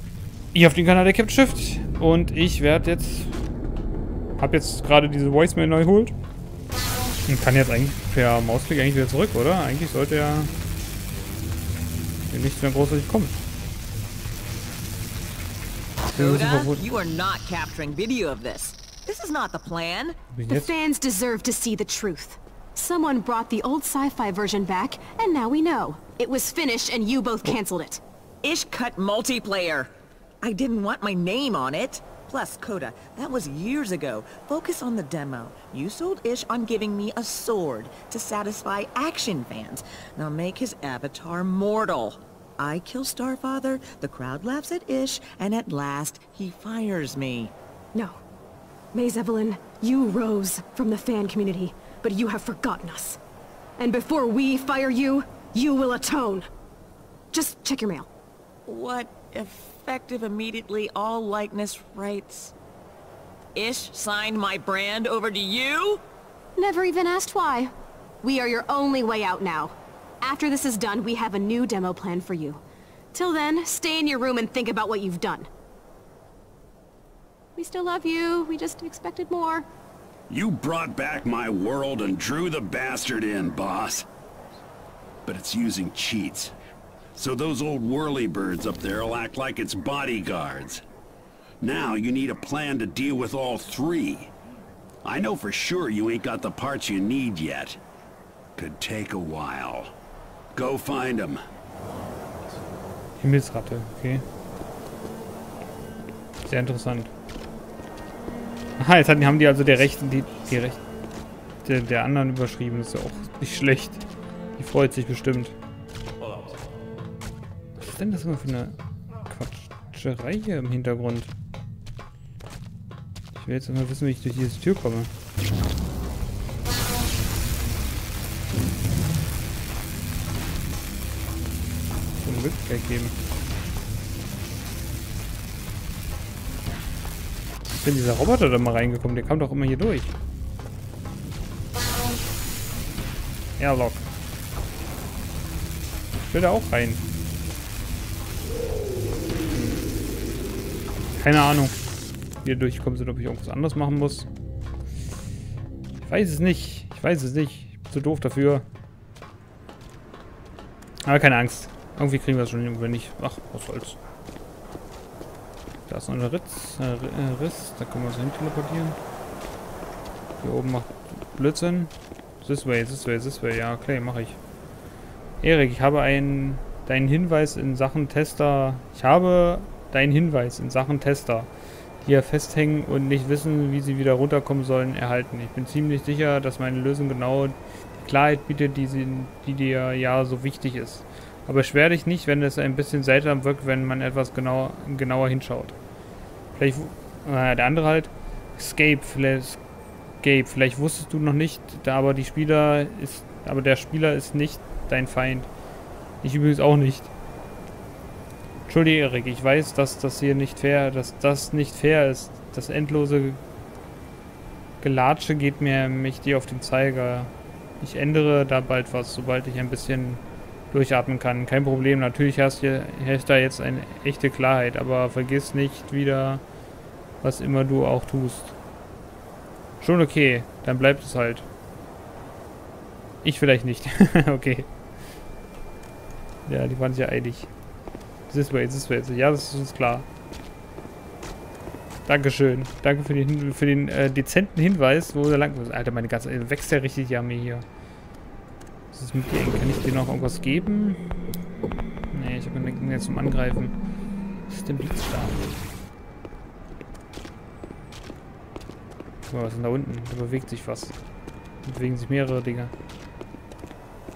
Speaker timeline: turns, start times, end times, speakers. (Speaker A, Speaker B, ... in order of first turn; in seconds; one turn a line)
Speaker A: 0.5-3.3
Speaker A: 4.4-6.1
Speaker A: 7.3-10.5
Speaker A: 12.3-13.4
Speaker B: 16.1-20.2
Speaker A: 16.1-16.8
Speaker A: 20.3-20.7
Speaker C: 20.5-28.0
Speaker B: 28.4-29.9
Speaker B: 30.4-47.5
Speaker C: 47.9-48.2
Speaker C: 48.9-53.2
Speaker C: 53.8-56.5
Speaker C: 57.3-58.1
Speaker B: 58.6-62.5
Speaker B: 63.5-66.0
Speaker C: 66.5-72.6
Speaker C: 73.1-75.5
Speaker C: 77.5-79.7
Speaker D: 80.3-84.0
Speaker D: 85.2-86.5
Speaker D: 87.2-90.8
Speaker D: 91.6-94.3
Speaker D: 95.0-97.8
Speaker D: 98.5-99.9
Speaker D: 100.5-101.4
Speaker A: 103.2-104.2
Speaker A: 106.4-107.1
Speaker A: 108.8-110.8
Speaker A: 111.6-114.0
Speaker A: 114.6-115.6
Speaker A: 117.8-118.7
Speaker A: 119.3-121.3
Speaker A: 123.3-125.1
Speaker A: 132.2-133.1
Speaker A: 137.8-140.1
Speaker A: 143.6-144.0
Speaker A: 146.3-147.0
Speaker A: 151.2-151.8
Speaker A: 152.4-154.3
Speaker A: 156.0-158.6
Speaker A: 161.0-164.0
Speaker A: 165.9-169.0
Speaker A: 170.4-174.4
Speaker A: 175.4-181.5
Speaker A: 182.0-195.7
Speaker A: 196.5-199.6
Speaker A: 200.2-205.5
Speaker A: 206.2-207.1
Speaker A: 208.7-213.4
Speaker A: 214.8-226.4
Speaker A: 227.2-228.5
Speaker A: 229.8-231.4
Speaker A: 233.2-234.7
Speaker A: 236.4-237.5
Speaker A: 238.3-240.1
Speaker A: 242.1-247.7
Speaker A: 248.9-251.0
Speaker A: 252.1-253.7
Speaker A: 254.5-255.4
Speaker A: 259.3-260.9
Speaker A: 261.6-262.7